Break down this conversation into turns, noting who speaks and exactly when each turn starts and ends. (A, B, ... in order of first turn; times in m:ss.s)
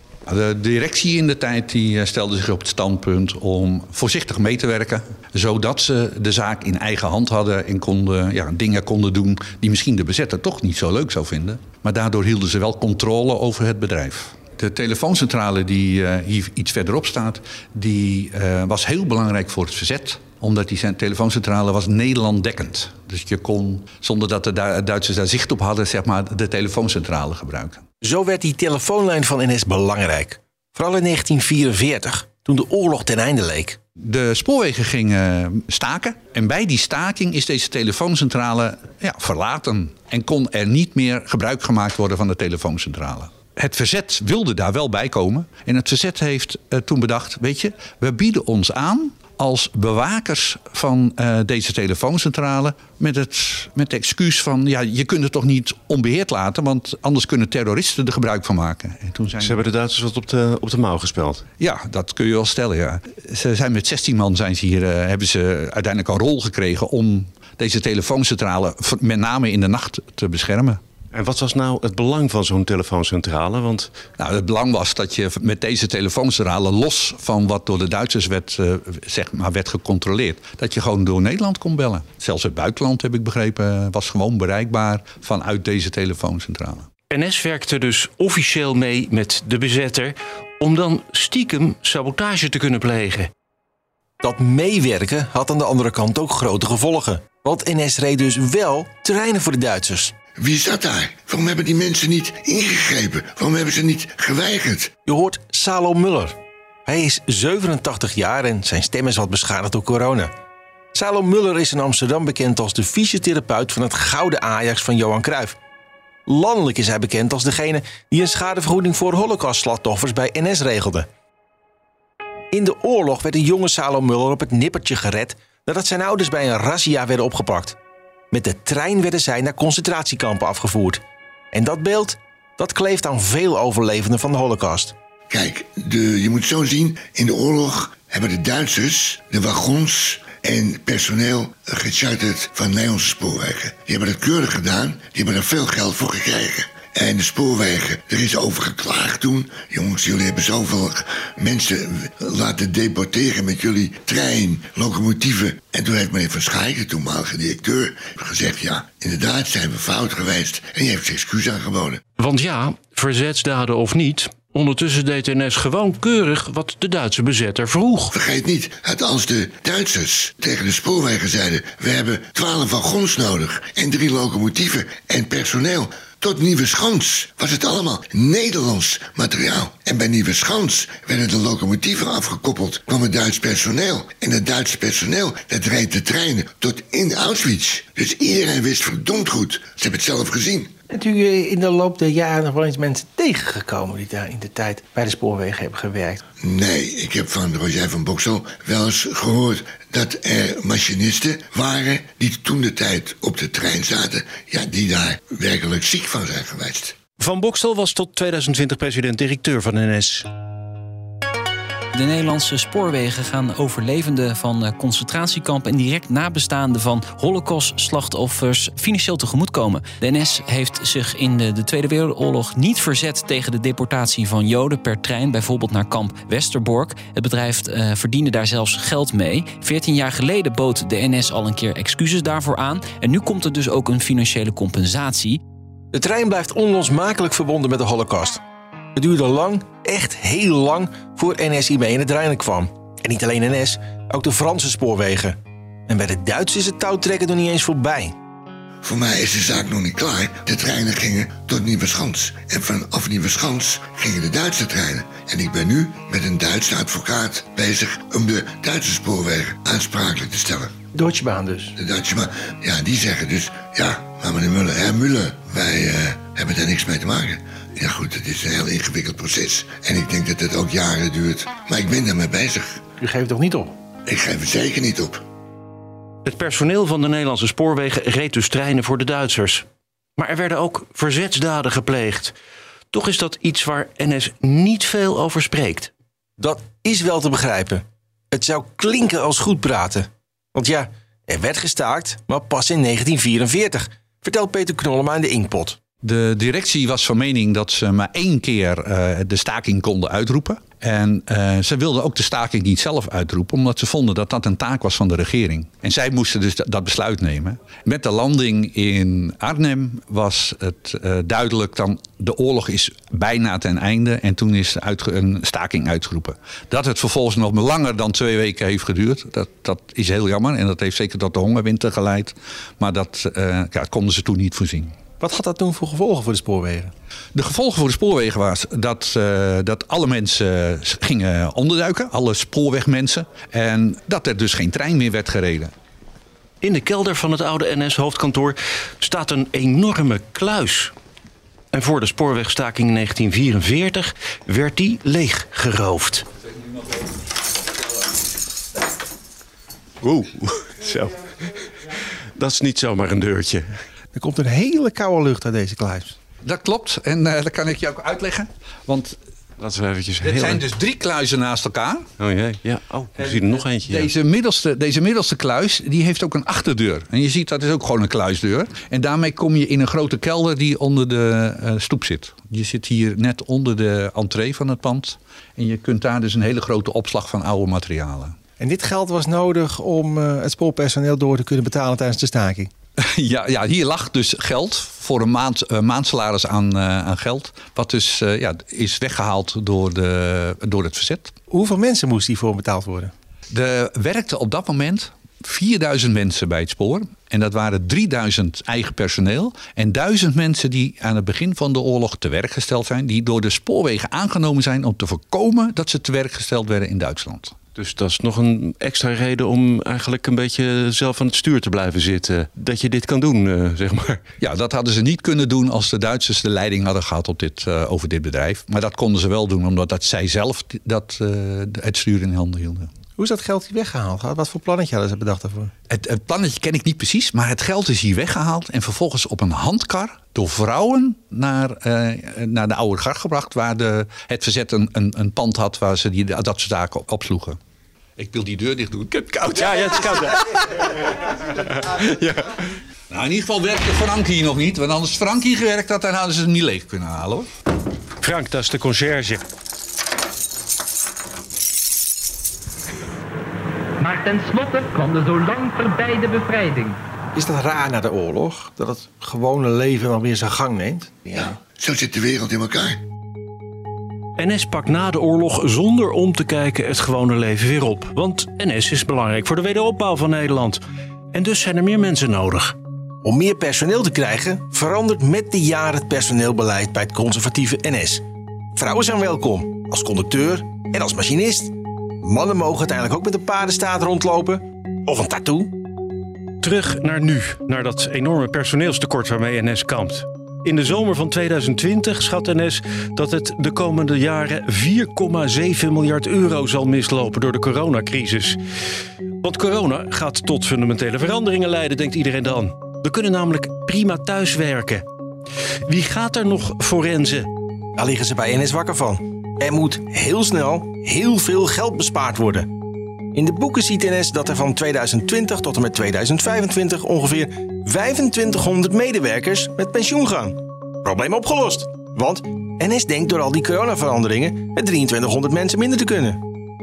0:00.3-0:27.8 A
0:28.0-0:33.8 B
0:34.0-0:59.6 A
0:59.4-1:01.4 C
1:01.6-1:10.8 A
1:11.1-1:13.9 C
1:14.2-1:26.9 A
1:27.1-1:33.3 C
1:34.2-1:40.1 B
1:40.4-1:44.9 D
1:45.0-1:50.3 B
1:50.9-1:55.6 B
1:56.3-2:01.1 B
2:02.5-2:07.8 B
2:08.3-2:11.0 B
2:11.5-2:14.9 B
2:15.3-2:42.0 D
2:42.2-2:48.1 C
2:48.1-3:10.7 D
3:10.9-3:16.2 B
3:16.4-3:26.9 D
3:27.2-3:30.3 C
3:31.9-3:55.4 E
3:55.9-3:58.4 B
3:58.9-4:05.4 B
4:05.9-4:08.1 B
4:08.8-4:20.7 D
4:20.9-4:21.7 B
4:21.8-4:32.8 D
4:33.0-4:33.7 B
4:34.0-4:35.2 D
4:36.2-4:39.6 C
4:40.2-4:42.3 C
4:42.9-4:45.9 C
4:46.4-4:55.8 B
4:56.0-5:25.0 A
5:25.2-5:26.9 B
5:27.3-5:35.7 A
5:36.6-5:40.9 C
5:41.7-5:46.2 C
5:50.0-5:53.8 C
5:54.1-5:56.2 B
5:56.4-5:59.2 A
5:59.6-6:00.6 C
6:00.2-6:02.1 A
6:02.2-6:04.1 C
6:03.2-6:18.4 A
6:18.6-6:22.7 B
6:23.0-6:31.3 A
6:31.5-6:33.1 B
6:33.5-6:47.5 A
6:47.8-6:54.2 C
6:54.4-7:02.9 A
7:03.2-7:05.7 B
7:05.9-7:17.6 A
7:18.2-7:20.3 A
7:19.6-7:20.4 C
7:23.1-7:27.5 A
7:28.2-7:29.4 C
7:34.0-7:37.0 F
7:37.3-7:41.4 B
7:41.3-7:43.0 D
7:44.4-7:50.8 C
7:51.3-7:52.7 C
7:53.2-7:58.2 B
7:58.8-8:05.7 B
8:06.6-8:18.6 C
8:19.4-8:25.0 C
8:25.9-8:27.5 C
8:28.0-8:32.7 B
8:33.3-8:46.4 B